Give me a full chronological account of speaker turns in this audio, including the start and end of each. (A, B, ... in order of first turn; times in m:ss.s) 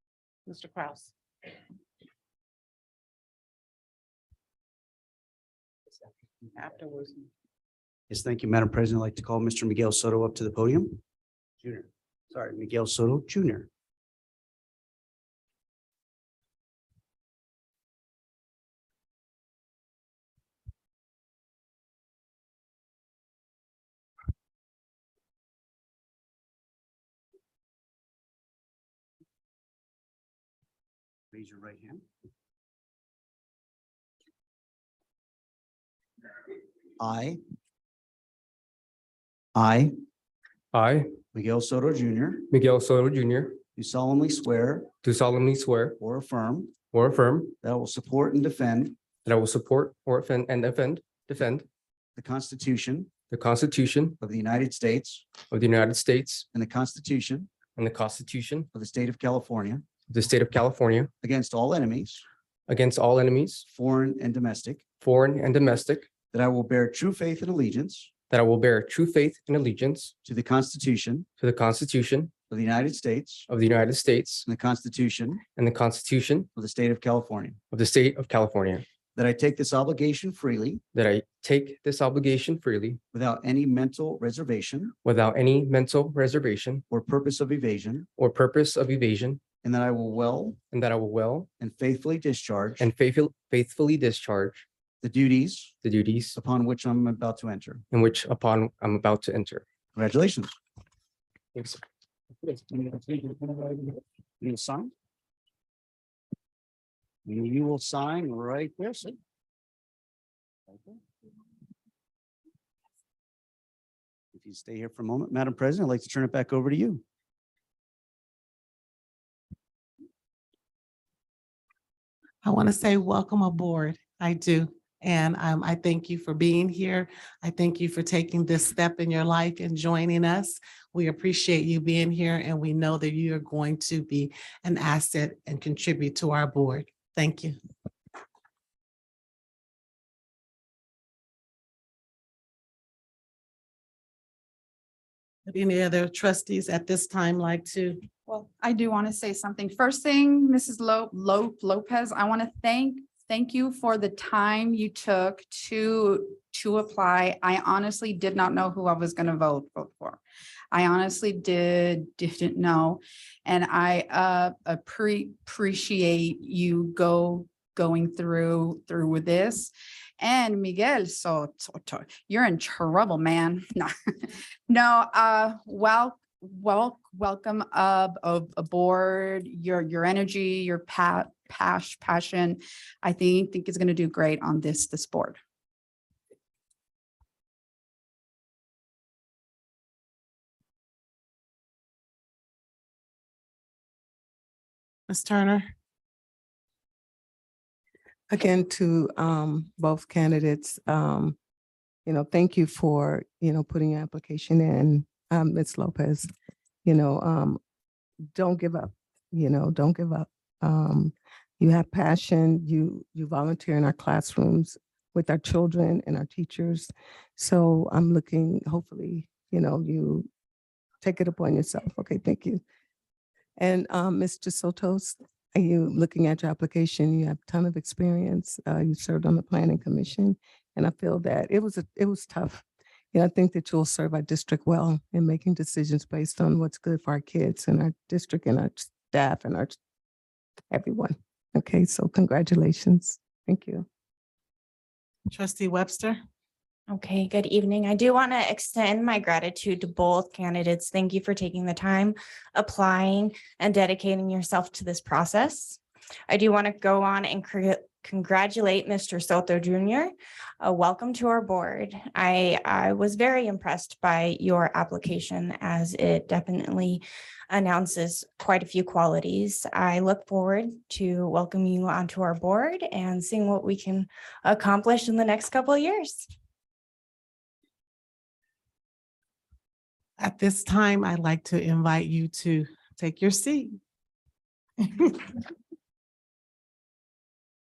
0:00.5-0:01.1 A
0:06.6-0:07.3 A
0:08.1-0:11.0 B
0:11.6-0:13.7 B
0:31.3-0:32.0 B
0:37.0-0:37.4 B
0:39.6-0:39.9 B
0:40.7-0:41.1 C
0:41.3-0:42.5 B
0:42.5-0:43.6 C
0:43.8-0:44.9 B
0:45.0-0:46.0 C
0:46.0-0:46.7 B
0:46.9-0:47.6 C
0:47.6-0:49.0 B
0:49.2-0:51.7 C
0:52.2-0:53.1 B
0:53.3-0:54.2 C
0:54.2-0:55.3 B
0:55.5-0:56.5 C
0:56.5-0:57.5 B
0:57.8-0:58.7 C
0:58.7-0:59.8 B
1:00.1-1:01.1 C
1:01.2-1:02.2 B
1:02.7-1:03.7 C
1:03.7-1:04.8 B
1:05.0-1:06.1 C
1:06.3-1:08.1 B
1:08.3-1:10.1 C
1:10.2-1:11.3 B
1:11.4-1:12.3 C
1:12.5-1:13.5 B
1:13.5-1:14.5 C
1:14.5-1:15.4 B
1:15.6-1:16.5 C
1:16.6-1:17.6 B
1:17.7-1:18.8 C
1:19.2-1:20.8 B
1:20.9-1:23.0 C
1:23.1-1:24.9 B
1:25.0-1:26.8 C
1:26.9-1:28.1 B
1:28.2-1:29.4 C
1:29.6-1:30.6 B
1:30.7-1:31.5 C
1:31.6-1:32.9 B
1:32.8-1:34.6 C
1:35.0-1:35.8 B
1:35.8-1:36.4 C
1:36.4-1:37.8 B
1:37.9-1:39.6 C
1:40.0-1:40.6 B
1:41.5-1:41.8 C
1:42.7-1:44.9 B
1:47.2-1:49.2 B
1:50.7-1:51.0 B
1:54.3-1:57.0 B
2:02.4-2:17.6 A
2:25.5-2:28.1 A
2:28.3-2:40.2 D
2:40.7-3:05.4 D
3:15.1-3:15.6 A
3:18.3-3:21.4 E
3:22.1-3:26.3 E
3:26.8-3:27.6 E
3:28.4-3:40.3 E
3:41.0-3:42.6 E
3:43.6-3:59.8 E
4:00.7-4:03.9 E
4:05.3-4:06.2 A
4:06.9-4:36.2 F
4:40.2-4:43.8 A
4:44.8-4:45.3 A